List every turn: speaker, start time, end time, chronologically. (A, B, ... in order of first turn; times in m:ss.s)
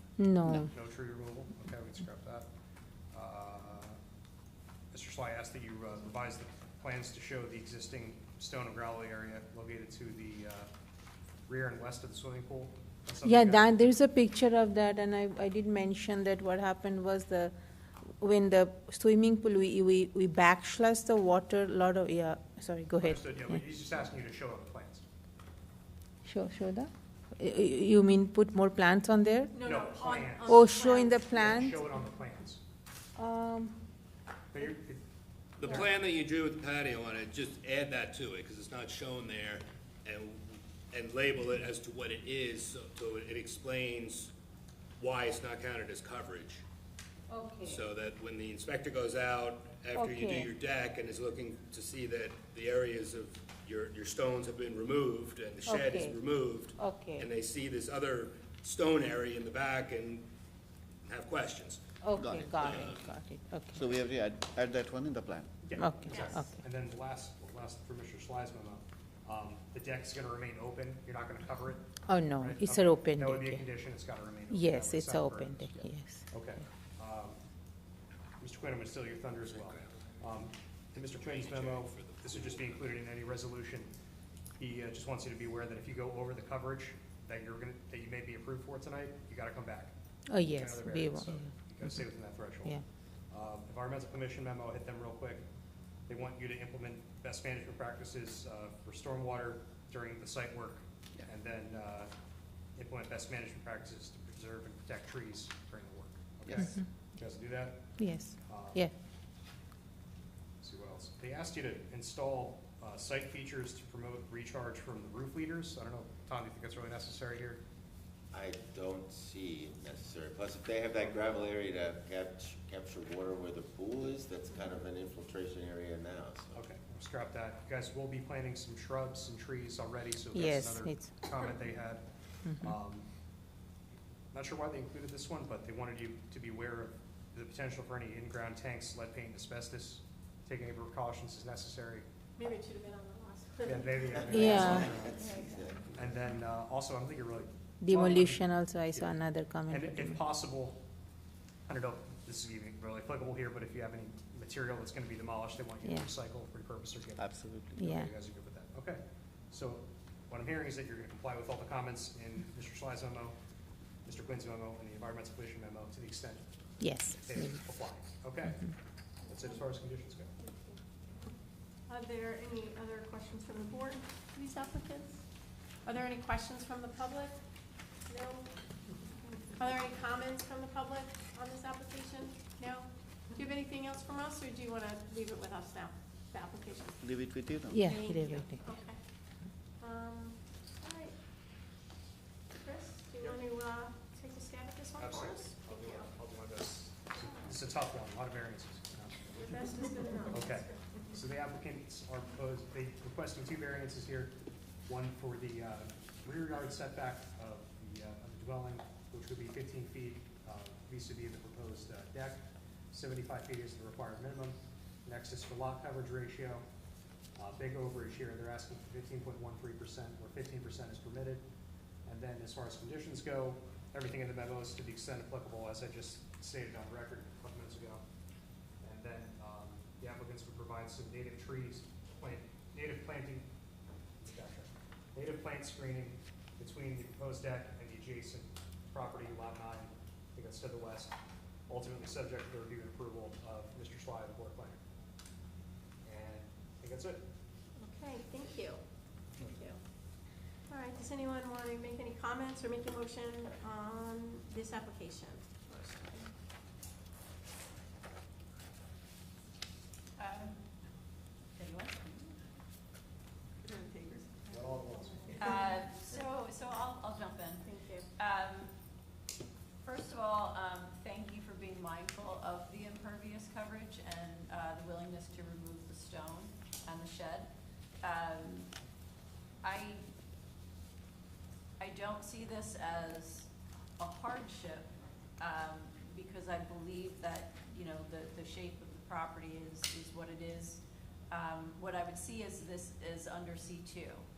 0:00.2-0:00.7 A
0:00.5-0:02.5 B
0:03.1-0:04.0 B
0:04.9-0:10.7 B
0:11.5-0:13.9 B
0:13.2-0:17.5 A
0:18.2-0:23.5 A
0:23.0-0:25.0 B
0:26.2-0:29.5 A
0:29.6-0:31.1 C
0:29.6-0:32.6 B
0:30.4-0:31.8 A
0:33.2-0:33.8 A
0:34.5-0:35.0 B
0:35.6-0:44.3 D
0:45.0-0:46.6 D
0:47.3-0:47.8 A
0:47.6-1:00.2 D
0:50.0-0:50.5 A
0:55.6-0:56.2 A
0:56.8-0:57.3 A
1:01.0-1:01.8 D
1:02.0-1:03.8 A
1:02.2-1:02.7 E
1:02.6-1:03.1 D
1:03.7-1:05.5 E
1:05.6-1:17.4 B
1:05.8-1:06.5 A
1:12.1-1:13.7 A
1:14.5-1:16.2 A
1:18.4-1:23.9 B
1:19.5-1:19.9 D
1:21.1-1:23.0 D
1:24.6-1:32.8 B
1:30.3-1:32.0 A
1:33.3-1:35.4 B
1:36.1-1:42.1 B
1:42.8-1:47.8 B
1:46.5-1:46.8 A
1:48.0-1:48.9 A
1:48.4-1:48.9 B
1:50.6-1:57.6 B
1:58.3-2:06.6 F
2:06.5-2:13.1 B
2:10.3-2:11.1 A
2:12.4-2:12.8 A
2:14.3-2:22.0 B
2:22.4-2:25.3 C
2:23.6-2:25.3 B
2:24.2-2:25.9 F
2:24.3-2:25.0 A
2:25.9-2:29.1 B
2:27.8-2:30.2 A
2:29.7-2:30.8 B
2:31.7-2:43.4 B
2:37.2-2:37.8 E
2:37.8-2:38.1 A
2:44.1-2:46.4 B
2:46.8-2:47.7 A
2:47.1-2:48.7 B
2:49.3-2:50.4 B
2:50.4-2:50.8 C
2:51.9-2:55.2 C
2:55.8-2:57.4 C
2:58.1-2:58.5 C
2:59.5-3:07.0 C
3:07.0-3:07.9 E
3:07.7-3:08.6 A
3:07.8-3:09.0 C
3:09.8-3:11.1 C
3:12.5-3:16.1 C
3:13.2-3:13.4 B
3:15.0-3:19.7 B
3:19.3-3:20.7 C
3:20.2-3:24.3 B
3:24.9-3:36.6 B
3:37.4-3:41.4 B
3:42.1-3:48.0 B
3:48.8-3:53.5 B
3:54.2-4:01.1 B
4:01.7-4:04.8 B
4:06.0-4:07.2 B
4:07.8-4:08.8 C
4:09.4-4:09.8 C
4:10.7-4:16.3 C
4:20.2-4:20.6 G
4:21.6-4:22.4 G
4:23.8-4:25.0 C
4:24.5-4:25.4 B
4:25.4-4:28.7 G
4:27.6-4:28.1 C
4:29.8-4:37.5 G
4:38.0-4:38.7 G
4:39.6-4:40.0 G
4:41.8-4:54.2 G